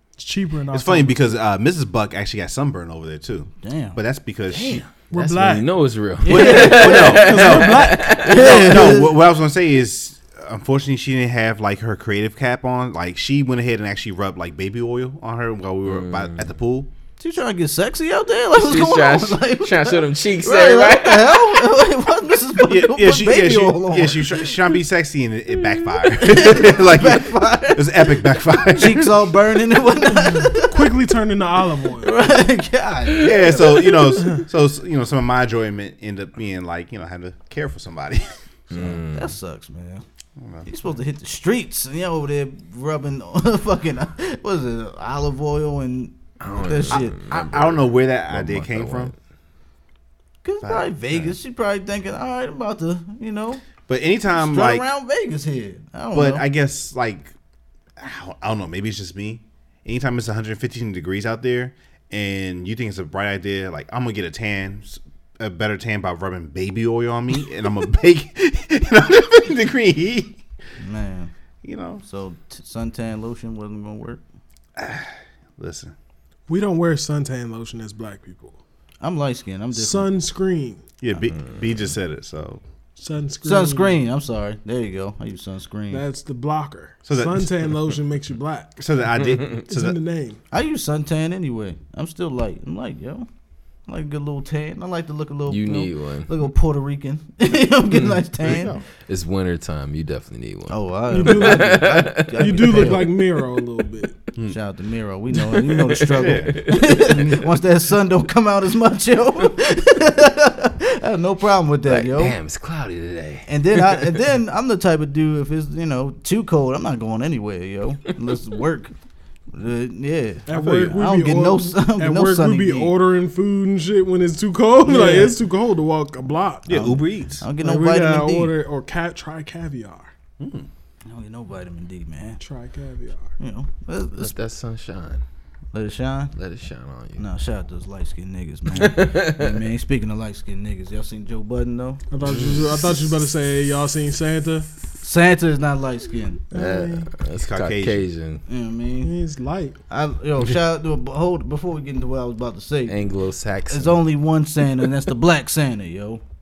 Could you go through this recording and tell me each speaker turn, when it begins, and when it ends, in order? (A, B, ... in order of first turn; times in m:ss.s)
0:00.2-0:01.3 A
0:00.7-0:04.8 B
0:03.6-0:04.0 C
0:04.5-0:08.9 D
0:05.1-0:05.7 A
0:06.2-0:07.3 C
0:06.3-0:16.9 B
0:06.5-0:08.4 A
0:08.2-0:09.1 C
0:15.9-0:16.5 D
0:17.2-0:24.6 C
0:18.6-0:21.7 D
0:22.6-0:29.1 B
0:26.2-0:31.0 C
0:30.2-0:32.2 A
0:32.0-0:34.2 C
0:33.2-0:39.0 B
0:38.7-0:39.4 D
0:38.8-0:40.0 C
0:40.4-0:40.7 B
0:40.6-0:47.2 C
0:46.4-0:49.1 D
0:46.9-0:49.1 B
0:50.4-0:53.6 C
0:50.6-0:51.4 B
0:53.9-0:54.9 B
0:54.3-0:56.5 C
0:56.1-0:57.3 B
0:58.0-1:10.4 B
1:10.8-1:11.3 C
1:11.6-1:12.0 B
1:12.0-1:14.2 C
1:14.8-1:15.9 B
1:16.5-1:18.6 A
1:19.0-1:20.1 C
1:19.7-1:20.8 A
1:21.0-1:22.6 B
1:23.0-1:24.0 A
1:23.4-1:26.0 C
1:25.9-1:28.8 A
1:27.1-1:27.7 B
1:28.8-1:30.0 B
1:29.7-1:30.4 A
1:30.5-1:33.3 C
1:33.9-1:38.8 C
1:35.5-1:36.3 D
1:38.4-1:38.8 B
1:39.1-1:43.0 D
1:40.7-1:43.1 C
1:41.1-1:44.1 A
1:44.5-1:52.4 C
1:45.5-1:47.3 D
1:46.2-1:46.6 B
1:51.9-1:54.2 D
1:53.5-1:58.9 C
1:59.5-2:03.0 C
2:00.5-2:06.8 A
2:00.5-2:01.0 B
2:04.9-2:05.3 C
2:06.7-2:07.4 B
2:06.7-2:08.5 C
2:07.6-2:10.1 A
2:10.4-2:10.7 B
2:11.1-2:12.4 C
2:12.4-2:13.3 A
2:13.4-2:14.4 C
2:14.2-2:15.2 D
2:15.7-2:16.3 C
2:16.4-2:17.2 D
2:17.2-2:22.0 C
2:18.7-2:19.6 D
2:22.1-2:24.7 A
2:22.2-2:22.8 B
2:25.0-2:26.4 C
2:26.5-2:27.1 A
2:26.5-2:28.4 D
2:27.3-2:28.0 B
2:28.5-2:29.1 C
2:29.0-2:29.8 A
2:29.9-2:33.0 C
2:32.9-2:34.0 D
2:33.7-2:36.2 C